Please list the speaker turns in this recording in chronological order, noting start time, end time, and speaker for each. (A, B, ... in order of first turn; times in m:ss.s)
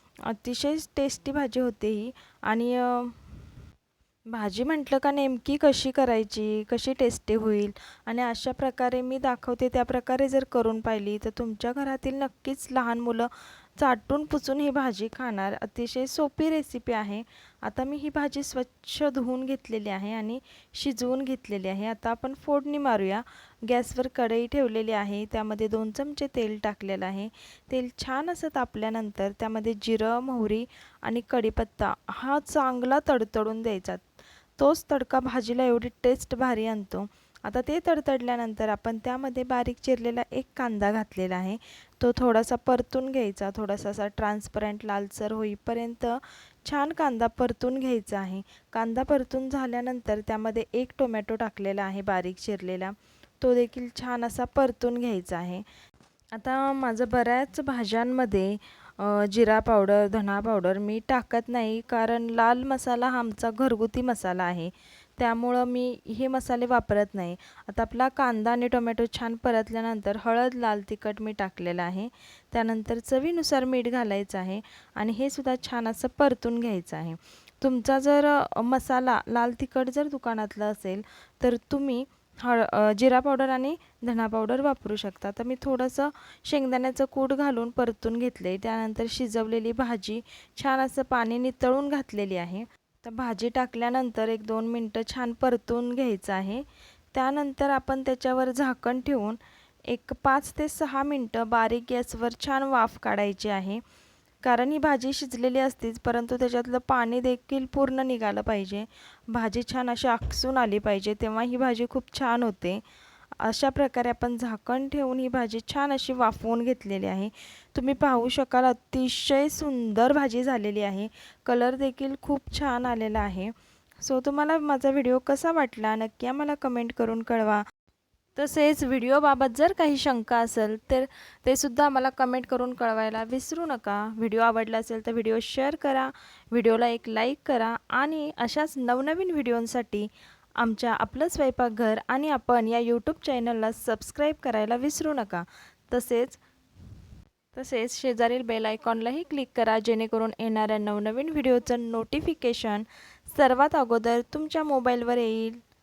0:00.2-0:03.2 A
0:04.3-0:34.0 A
0:34.6-0:55.6 A
0:56.3-1:43.8 A
1:44.4-1:52.8 A
1:53.4-2:07.6 A
2:08.4-2:26.4 A
2:27.5-2:35.6 A